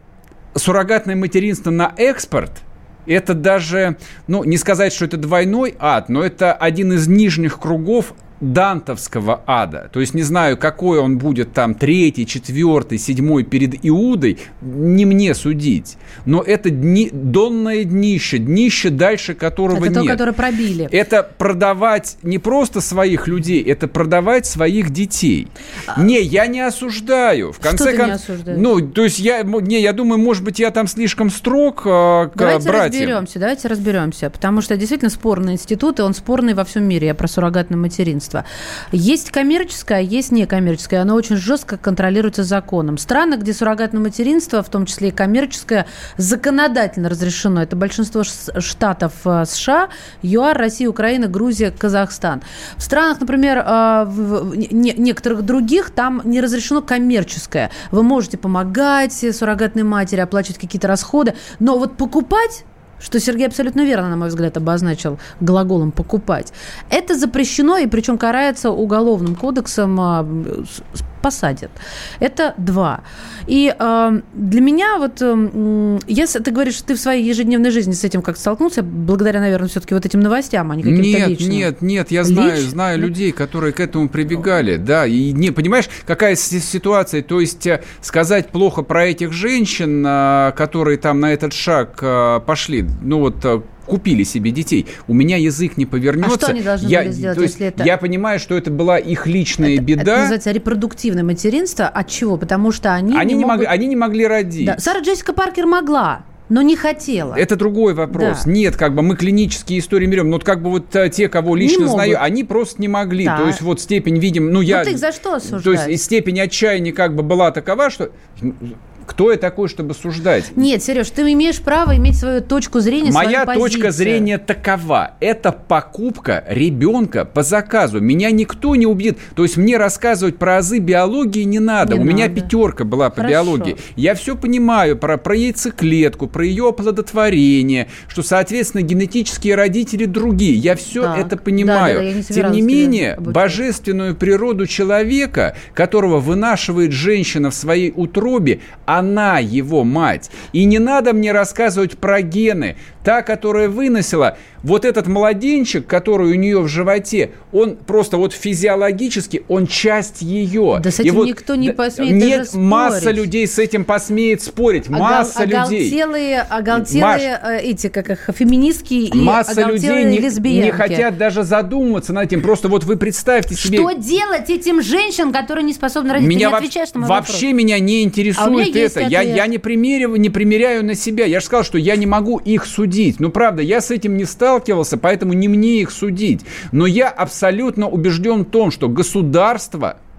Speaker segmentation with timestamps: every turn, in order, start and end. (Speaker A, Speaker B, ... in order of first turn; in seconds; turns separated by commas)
Speaker A: 0.5-20.2, Speaker B: 19.7-20.9, Speaker A: 20.9-33.2, Speaker B: 27.6-28.7, Speaker B: 32.4-81.7, Speaker A: 80.8-100.3, Speaker B: 82.2-83.1, Speaker B: 96.2-97.9, Speaker B: 99.6-103.7, Speaker A: 103.1-104.8, Speaker B: 104.6-107.4, Speaker A: 107.3-120.6, Speaker B: 108.1-108.5, Speaker B: 111.6-112.2, Speaker B: 113.2-113.6, Speaker B: 114.7-116.0, Speaker B: 120.5-124.3, Speaker A: 123.0-166.0, Speaker B: 131.8-132.5, Speaker B: 133.2-133.8, Speaker B: 141.0-143.6, Speaker B: 160.8-163.2, Speaker B: 164.9-171.1, Speaker A: 166.7-167.3, Speaker A: 169.1-173.9, Speaker B: 173.6-177.4, Speaker A: 176.2-190.0, Speaker B: 178.4-179.4